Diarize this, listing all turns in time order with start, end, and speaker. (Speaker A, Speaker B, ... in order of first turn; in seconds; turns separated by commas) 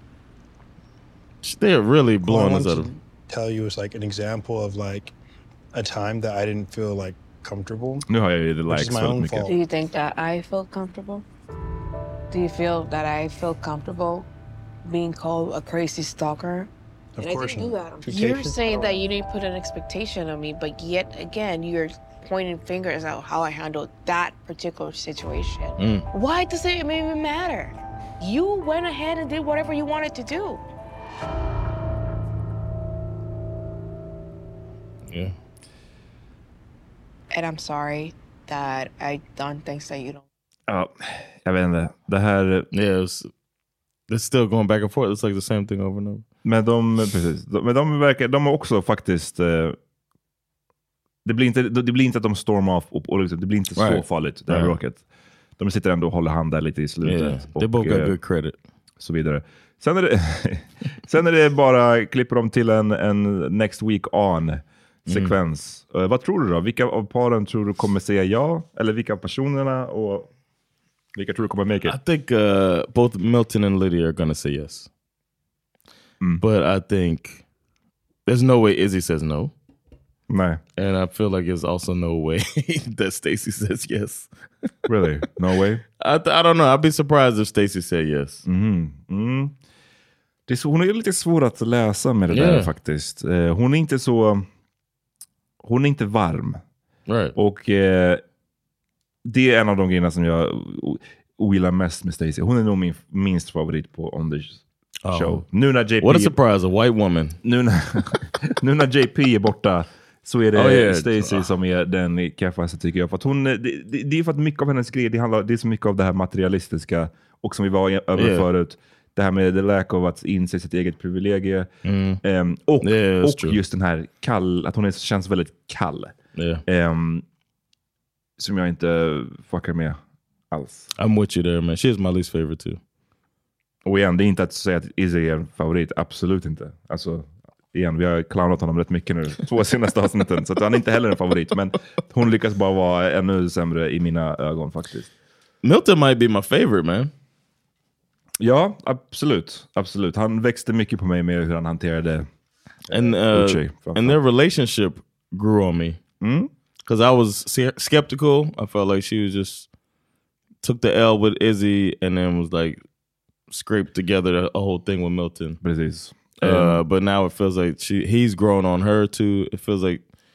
Speaker A: 1.4-2.9, Speaker B: 2.2-5.1, Speaker B: 5.7-8.1, Speaker C: 8.1-9.5, Speaker B: 8.7-9.6, Speaker D: 9.5-11.2, Speaker D: 12.3-14.3, Speaker D: 14.8-30.6, Speaker B: 17.2-19.0, Speaker A: 25.8-26.1, Speaker A: 35.1-35.3, Speaker D: 37.3-40.2, Speaker C: 40.7-42.7, Speaker A: 42.7-43.3, Speaker A: 44.1-46.2, Speaker C: 46.4-49.8, Speaker C: 51.2-55.0, Speaker A: 53.7-54.8, Speaker C: 55.6-58.2, Speaker A: 57.0-58.5, Speaker C: 59.0-70.3, Speaker A: 65.1-65.3, Speaker C: 71.1-72.0, Speaker A: 71.8-74.9, Speaker A: 76.4-77.4, Speaker A: 78.2-79.5, Speaker C: 80.3-80.6, Speaker A: 80.8-84.3, Speaker C: 84.8-85.8, Speaker A: 86.0-88.4, Speaker C: 88.5-89.5, Speaker C: 90.5-94.5, Speaker A: 92.3-92.7, Speaker C: 95.6-96.6, Speaker A: 97.1-97.3, Speaker C: 97.3-98.2, Speaker C: 99.2-106.4, Speaker A: 105.0-105.4, Speaker A: 106.0-107.4, Speaker C: 107.4-121.7, Speaker A: 110.5-111.5, Speaker A: 118.1-118.5, Speaker A: 121.8-122.2, Speaker C: 122.2-126.1, Speaker A: 122.8-123.6, Speaker A: 126.3-126.6, Speaker C: 126.7-127.2, Speaker C: 128.4-130.0, Speaker C: 130.5-130.9, Speaker A: 130.9-132.8, Speaker C: 133.8-145.1, Speaker A: 145.6-147.1, Speaker C: 148.4-152.3, Speaker C: 152.9-154.2, Speaker A: 152.9-156.0, Speaker C: 156.2-156.5, Speaker A: 156.8-159.7, Speaker A: 160.6-162.8, Speaker A: 163.5-165.6, Speaker C: 165.6-166.8, Speaker A: 166.4-170.0